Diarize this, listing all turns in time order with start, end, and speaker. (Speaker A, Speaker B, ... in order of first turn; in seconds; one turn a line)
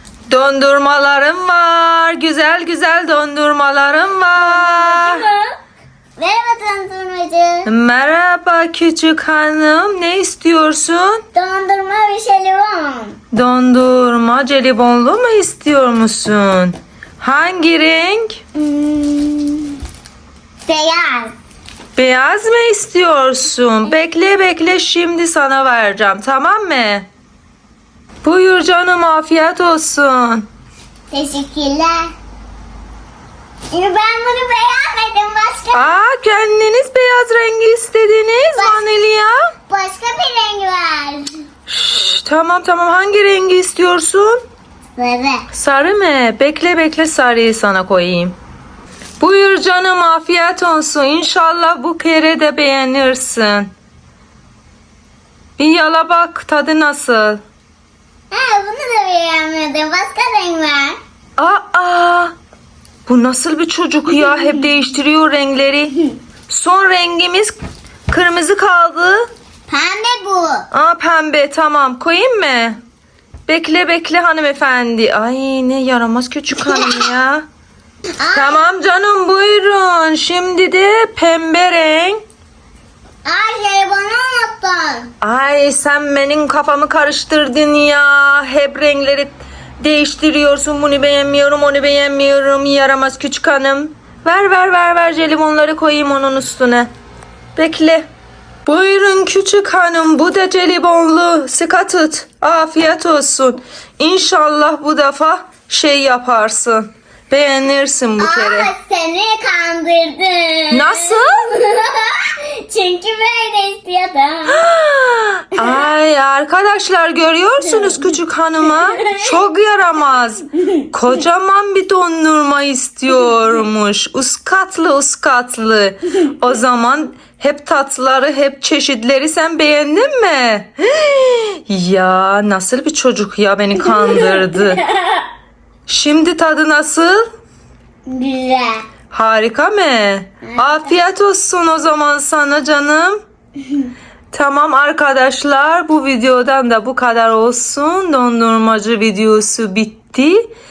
Speaker A: 0.3-5.3
Speaker B: 4.4-5.5
Speaker B: 6.2-7.7
Speaker A: 7.6-11.2
Speaker B: 11.3-13.2
Speaker A: 13.3-18.4
Speaker B: 18.5-19.8
Speaker B: 20.6-21.3
Speaker A: 21.9-27.1
Speaker A: 28.2-30.5
Speaker B: 31.1-32.1
Speaker B: 33.7-36.0
Speaker A: 35.7-39.5
Speaker B: 38.5-38.8
Speaker B: 39.7-41.3
Speaker A: 41.7-44.4
Speaker B: 45.0-45.5
Speaker A: 45.5-48.4
Speaker A: 49.2-53.7
Speaker A: 55.6-57.4
Speaker B: 58.3-61.0
Speaker A: 61.4-62.3
Speaker A: 63.0-66.0
Speaker A: 66.5-67.5
Speaker A: 68.1-69.3
Speaker B: 69.7-70.7
Speaker A: 70.7-72.8
Speaker A: 73.5-77.4
Speaker B: 76.6-77.0
Speaker B: 78.2-78.6
Speaker A: 78.3-82.2
Speaker B: 83.2-85.1
Speaker A: 85.2-96.9
Speaker A: 97.5-98.0
Speaker A: 98.7-108.7
Speaker B: 108.2-114.6
Speaker A: 110.7-111.5
Speaker A: 114.5-134.8
Speaker B: 118.7-119.3
Speaker B: 133.8-135.2
Speaker A: 135.9-137.2
Speaker B: 138.1-138.8
Speaker A: 139.1-143.2
Speaker B: 140.4-140.9
Speaker A: 144.3-150.4